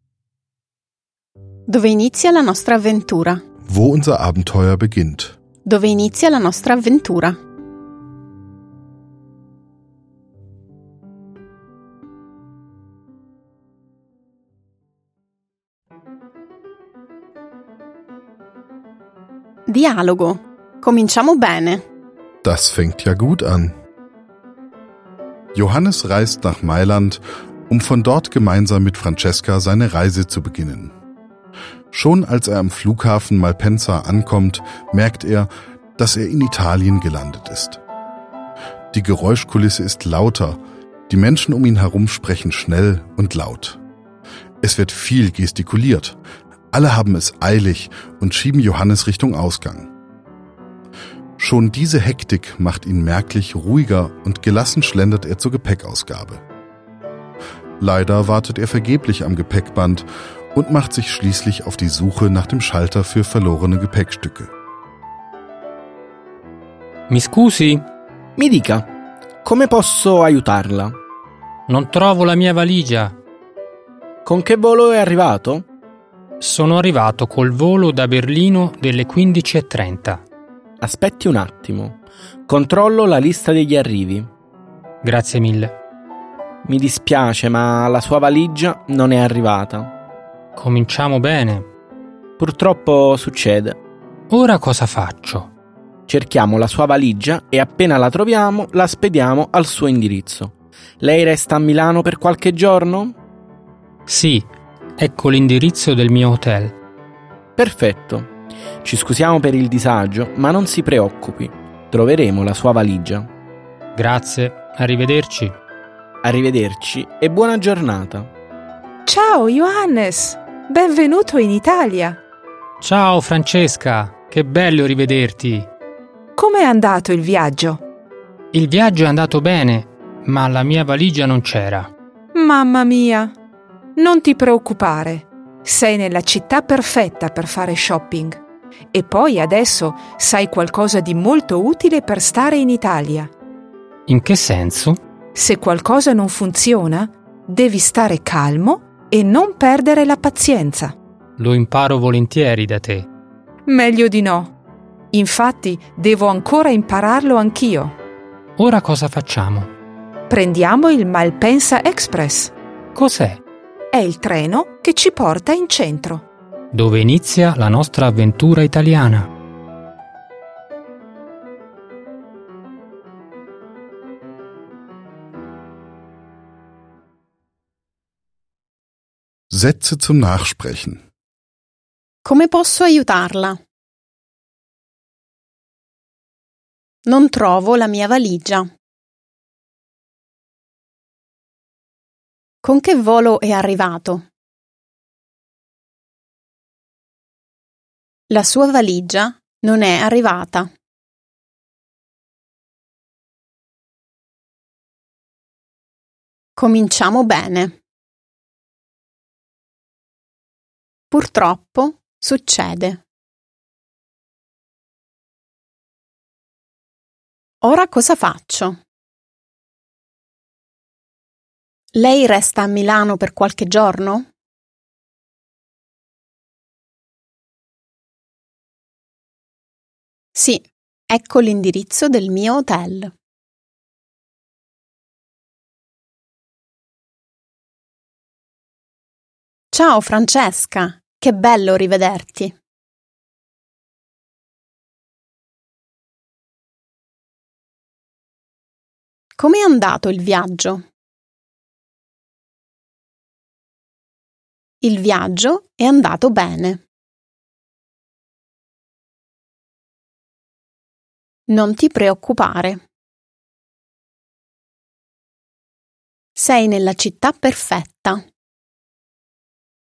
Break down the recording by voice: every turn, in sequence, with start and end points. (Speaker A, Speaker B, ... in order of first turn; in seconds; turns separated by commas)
Speaker A: 1.7-3.4, Speaker B: 3.6-5.3, Speaker A: 5.6-7.4, Speaker A: 19.7-21.8, Speaker B: 22.4-23.7, Speaker B: 25.5-30.9, Speaker B: 31.9-37.8, Speaker B: 38.9-43.8, Speaker B: 44.6-46.2, Speaker B: 46.7-49.9, Speaker B: 51.4-56.4, Speaker B: 57.8-64.5, Speaker C: 67.1-67.8, Speaker D: 68.4-68.8, Speaker D: 69.4-70.9, Speaker C: 71.7-73.1, Speaker D: 74.2-75.6, Speaker C: 76.4-80.2, Speaker D: 80.8-84.3, Speaker C: 85.0-85.7, Speaker D: 86.6-89.9, Speaker C: 90.5-91.7, Speaker D: 92.4-93.8, Speaker C: 94.3-95.5, Speaker D: 96.1-103.2, Speaker C: 104.1-106.8, Speaker D: 107.6-108.3, Speaker D: 108.8-113.3, Speaker C: 114.0-115.5, Speaker D: 116.2-118.3, Speaker E: 119.0-122.2, Speaker C: 122.8-125.7, Speaker E: 126.4-127.8, Speaker C: 128.5-131.9, Speaker E: 132.3-133.3, Speaker E: 133.9-138.4, Speaker E: 138.9-143.3, Speaker C: 144.1-145.0, Speaker E: 145.3-150.9, Speaker C: 151.4-153.1, Speaker E: 153.7-154.5, Speaker E: 155.1-157.9, Speaker C: 158.6-159.7, Speaker E: 160.3-162.5, Speaker C: 162.9-163.4, Speaker E: 163.9-166.2, Speaker C: 166.7-169.3, Speaker B: 179.5-181.0, Speaker A: 182.2-183.6, Speaker A: 187.0-188.7, Speaker A: 192.6-194.2, Speaker A: 198.3-200.7, Speaker A: 206.6-207.8, Speaker A: 211.1-213.0, Speaker A: 217.6-218.8, Speaker A: 221.9-224.3, Speaker A: 230.3-233.1, Speaker A: 239.7-242.5, Speaker A: 249.4-250.8, Speaker A: 254.8-256.8, Speaker A: 261.5-262.8, Speaker A: 266.4-268.2